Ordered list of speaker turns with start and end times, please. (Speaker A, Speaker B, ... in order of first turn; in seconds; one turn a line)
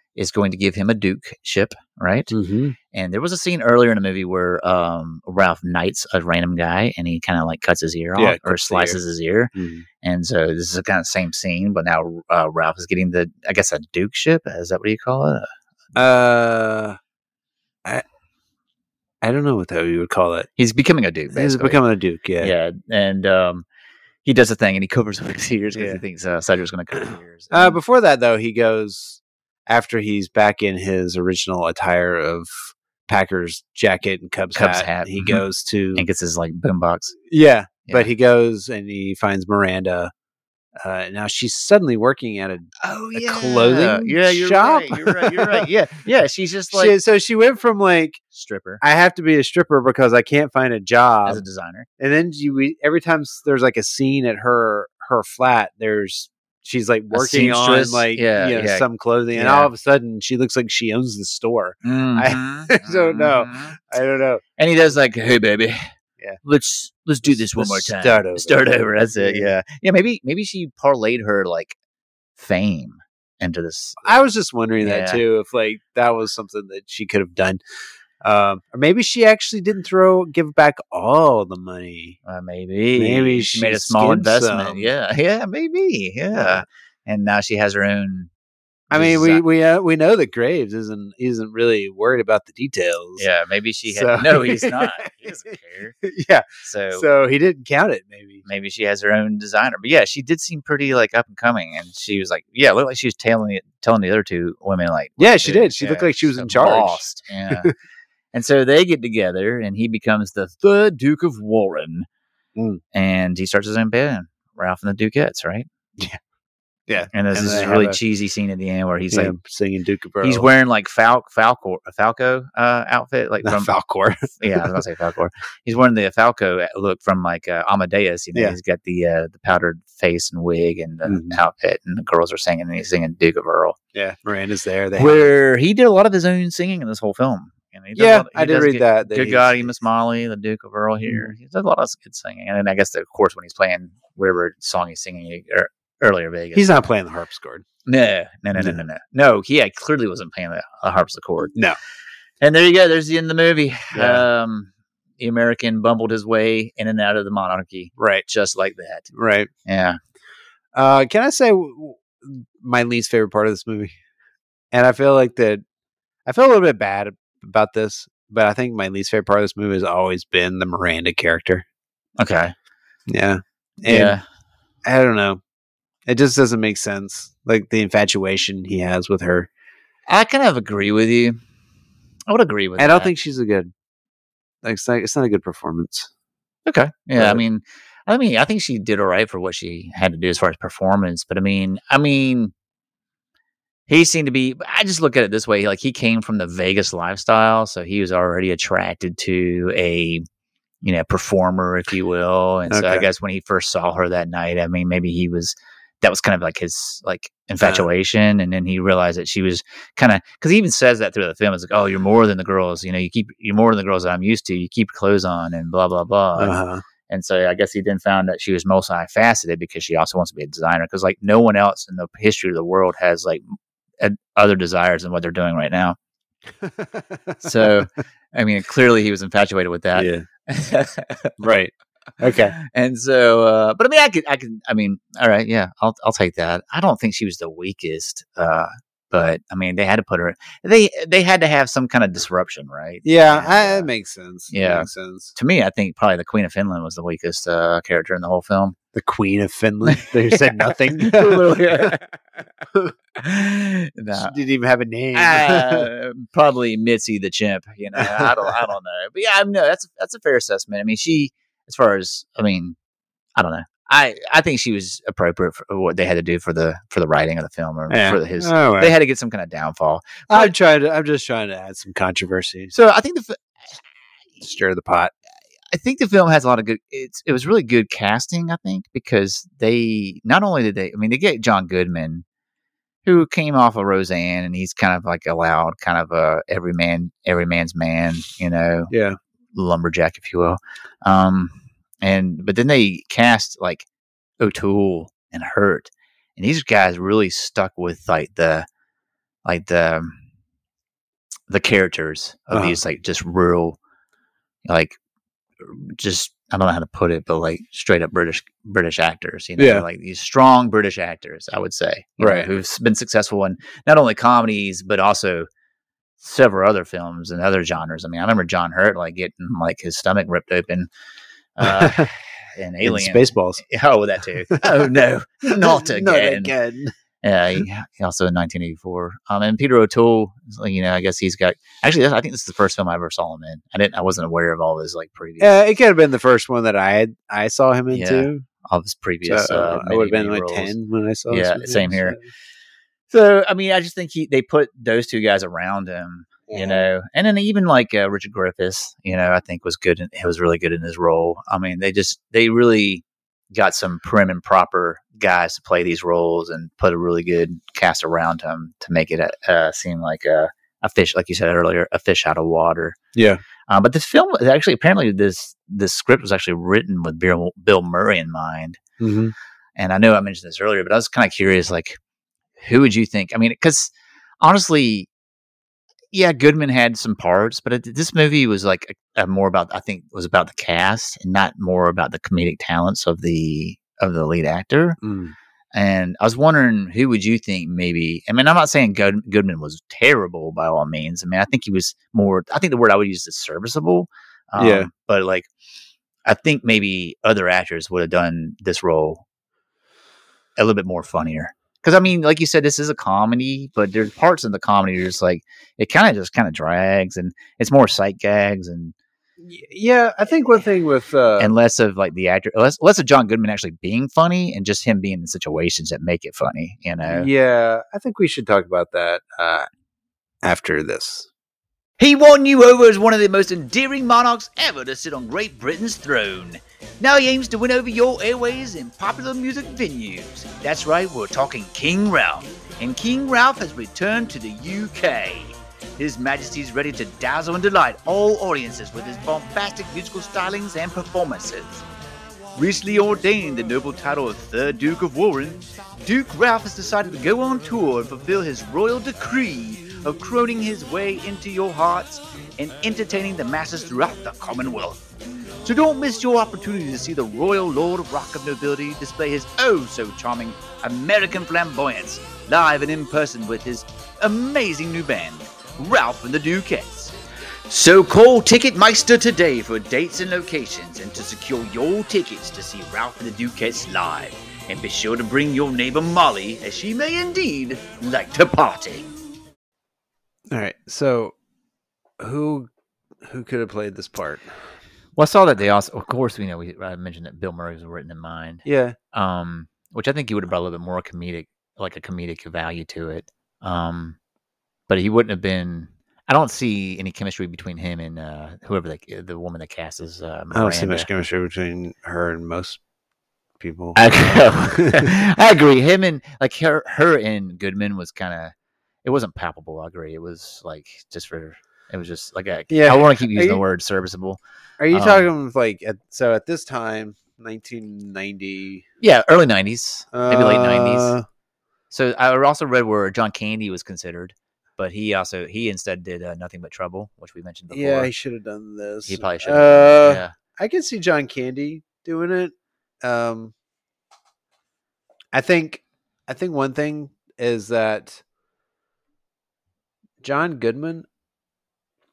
Speaker A: 0.1-2.3
Speaker B: 2.3-2.8
Speaker A: 2.9-15.5
Speaker B: 8.2-9.0
Speaker B: 9.5-9.8
Speaker B: 15.9-17.0
Speaker B: 19.2-20.5
Speaker A: 20.6-21.8
Speaker B: 21.3-22.5
Speaker A: 22.4-23.6
Speaker A: 24.2-27.8
Speaker B: 25.7-26.0
Speaker B: 27.5-36.0
Speaker A: 34.5-35.4
Speaker A: 35.9-37.1
Speaker B: 37.3-40.1
Speaker A: 37.9-38.1
Speaker B: 40.8-45.7
Speaker A: 42.8-47.0
Speaker B: 46.7-48.2
Speaker A: 48.3-48.8
Speaker B: 48.8-51.4
Speaker A: 51.2-51.9
Speaker B: 52.0-64.4
Speaker A: 57.1-59.7
Speaker A: 61.8-63.8
Speaker A: 64.6-65.9
Speaker A: 66.4-71.8
Speaker B: 67.2-69.5
Speaker A: 72.4-74.2
Speaker B: 74.0-77.6
Speaker A: 74.8-75.2
Speaker B: 78.2-82.2
Speaker A: 82.2-88.3
Speaker B: 83.0-84.9
Speaker B: 86.3-86.6
Speaker A: 88.9-89.4
Speaker B: 88.9-93.2
Speaker A: 93.2-96.0
Speaker B: 93.9-95.4
Speaker B: 96.0-98.4
Speaker A: 96.6-97.1
Speaker A: 98.4-107.7
Speaker B: 105.2-107.7
Speaker A: 108.3-112.0
Speaker B: 112.5-112.8
Speaker A: 112.9-115.7
Speaker B: 116.9-118.0
Speaker A: 117.1-119.3
Speaker B: 119.1-120.5
Speaker A: 120.2-123.7
Speaker B: 123.4-124.8
Speaker A: 124.3-133.8
Speaker B: 131.1-131.4
Speaker B: 133.9-135.2
Speaker A: 134.9-146.7
Speaker B: 137.9-139.7
Speaker B: 141.1-141.3
Speaker B: 146.5-147.6
Speaker A: 147.8-151.5
Speaker B: 148.5-148.8
Speaker A: 152.4-159.1
Speaker B: 153.9-154.3
Speaker B: 158.0-158.2
Speaker B: 159.1-159.5
Speaker A: 159.6-160.0
Speaker B: 160.7-164.0
Speaker B: 164.7-165.6
Speaker B: 166.2-171.7
Speaker A: 172.2-172.5
Speaker B: 173.1-174.2
Speaker A: 173.8-174.2
Speaker B: 174.8-175.4
Speaker B: 176.1-179.5
Speaker A: 180.1-181.4
Speaker A: 182.3-183.1
Speaker B: 182.8-183.7
Speaker B: 184.6-186.1
Speaker A: 186.7-192.5
Speaker B: 187.2-187.4
Speaker A: 193.9-200.2
Speaker A: 200.8-223.4
Speaker B: 202.7-203.0
Speaker B: 207.6-207.9
Speaker B: 216.3-216.8
Speaker A: 224.0-226.0
Speaker B: 226.6-227.8
Speaker A: 227.4-231.4
Speaker B: 229.9-230.2
Speaker B: 231.4-232.5
Speaker A: 232.6-243.9
Speaker B: 243.0-245.3
Speaker A: 244.5-248.8
Speaker B: 248.9-252.0
Speaker A: 249.9-252.0
Speaker A: 253.2-254.3
Speaker B: 254.1-255.9
Speaker A: 255.1-262.8
Speaker B: 257.9-258.6
Speaker A: 263.4-270.5
Speaker B: 267.9-268.9
Speaker B: 270.3-272.7
Speaker A: 272.7-273.4
Speaker B: 274.4-275.1
Speaker A: 275.7-282.2
Speaker A: 283.0-288.9
Speaker B: 288.9-289.2
Speaker A: 289.5-293.9
Speaker A: 294.4-298.7
Speaker A: 299.4-300.2
Speaker A: 301.5-303.8
Speaker B: 302.5-302.8
Speaker A: 304.6-305.0
Speaker A: 305.6-315.5
Speaker B: 309.6-309.8
Speaker B: 312.2-312.5
Speaker A: 316.2-320.9
Speaker A: 321.6-326.5
Speaker B: 321.6-322.1
Speaker B: 322.8-323.6
Speaker B: 324.5-324.9
Speaker B: 325.4-326.9
Speaker A: 327.2-335.5
Speaker B: 335.4-338.4
Speaker A: 337.9-340.7
Speaker B: 339.2-342.3
Speaker A: 341.3-342.2
Speaker A: 343.1-363.0
Speaker B: 346.5-346.9
Speaker B: 363.1-363.4
Speaker A: 363.7-368.8
Speaker B: 369.0-369.3
Speaker A: 369.8-372.0
Speaker A: 372.6-375.1
Speaker A: 376.1-385.0
Speaker B: 385.0-385.3
Speaker A: 385.7-395.5
Speaker B: 394.6-394.9
Speaker A: 396.2-399.2
Speaker A: 400.6-408.9
Speaker B: 409.4-411.5
Speaker A: 411.4-417.3
Speaker B: 417.0-419.7
Speaker B: 420.4-421.3
Speaker A: 422.0-441.8
Speaker A: 442.5-455.0
Speaker A: 455.6-467.1
Speaker A: 467.7-479.1
Speaker B: 480.5-481.3
Speaker B: 482.2-482.7
Speaker B: 483.2-484.5
Speaker A: 485.1-494.2
Speaker B: 488.6-488.9
Speaker A: 494.9-501.1
Speaker B: 500.5-502.8
Speaker B: 503.6-505.1
Speaker A: 503.9-515.3
Speaker B: 512.7-513.6
Speaker B: 514.8-518.8
Speaker A: 519.0-521.1
Speaker B: 520.1-521.2
Speaker A: 521.9-528.1
Speaker B: 527.7-533.5
Speaker A: 529.0-530.3
Speaker B: 535.3-538.2
Speaker B: 540.2-541.0